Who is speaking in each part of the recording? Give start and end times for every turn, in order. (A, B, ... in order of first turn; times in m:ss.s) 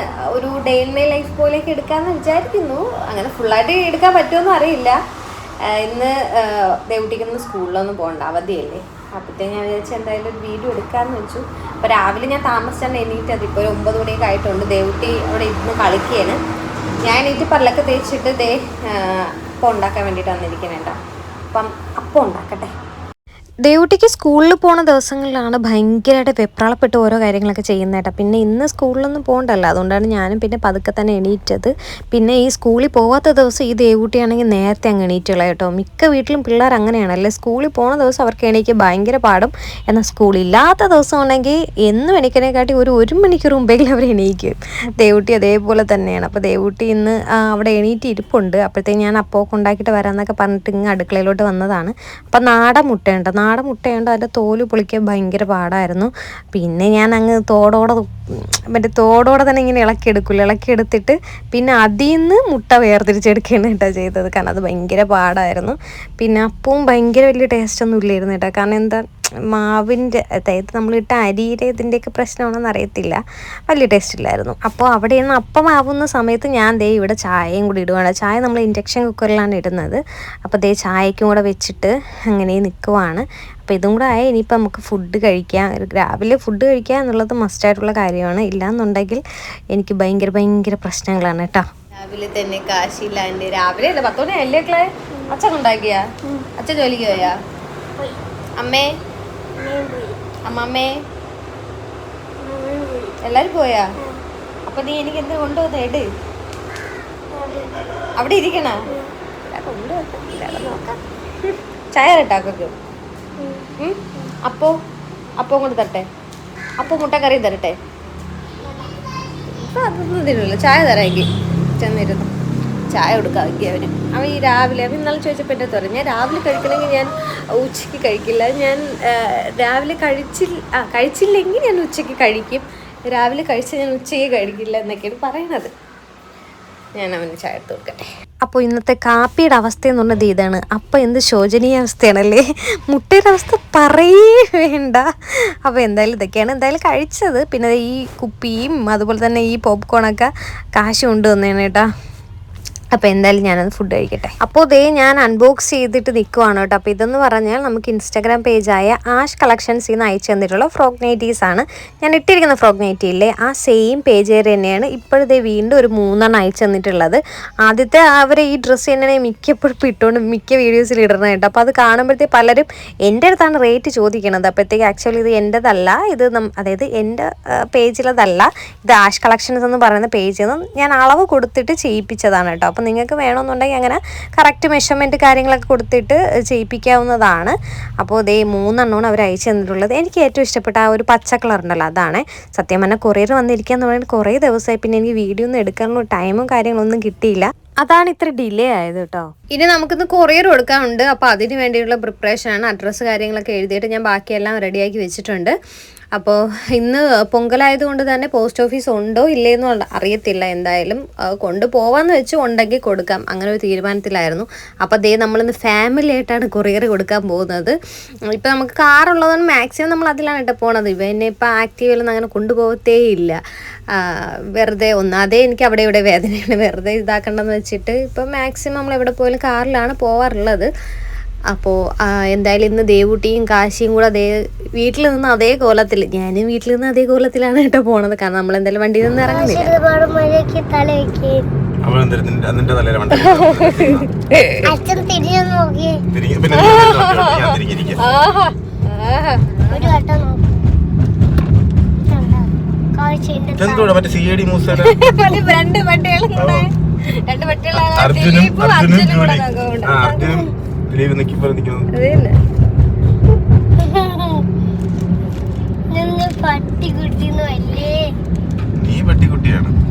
0:00.3-0:05.0 A
0:05.7-0:16.4 A
0:17.0-0:21.0 A
0:21.5-0:22.7 A
0:23.6-0:58.1 A
0:58.7-1:29.2 A
1:29.7-1:36.0 A
1:36.6-1:37.3 A
1:38.6-1:38.9 A
1:39.6-1:40.2 B
1:40.4-1:40.9 A
1:42.4-1:43.2 B
1:43.2-1:43.9 A
1:44.7-1:46.1 A
1:47.3-1:47.8 B
1:48.2-1:48.9 A
1:49.5-1:51.0 A
1:51.5-1:52.8 A
1:53.4-1:53.7 B
1:53.8-1:54.7 A
1:55.4-1:56.0 A
1:56.8-1:57.8 A
1:59.5-2:02.3 A
2:02.9-2:15.7 A
2:17.0-2:25.1 A
2:25.6-2:31.8 A
2:32.9-3:25.5 A
3:26.2-3:37.8 A
3:38.3-3:43.4 A
3:43.9-3:50.7 A
3:51.5-3:59.7 A
3:59.3-4:01.4 B
4:01.8-4:04.1 C
4:03.2-4:04.7 A
4:04.6-4:06.0 B
4:06.1-4:08.0 C
4:06.5-4:10.0 A
4:09.7-4:10.7 B
4:12.1-4:14.1 B
4:13.6-4:15.0 C
4:14.7-4:20.4 A
4:16.4-4:16.6 C
4:17.7-4:21.9 C
4:21.9-4:22.4 A
4:23.8-4:24.3 A
4:25.9-4:28.1 B
4:28.8-4:29.8 C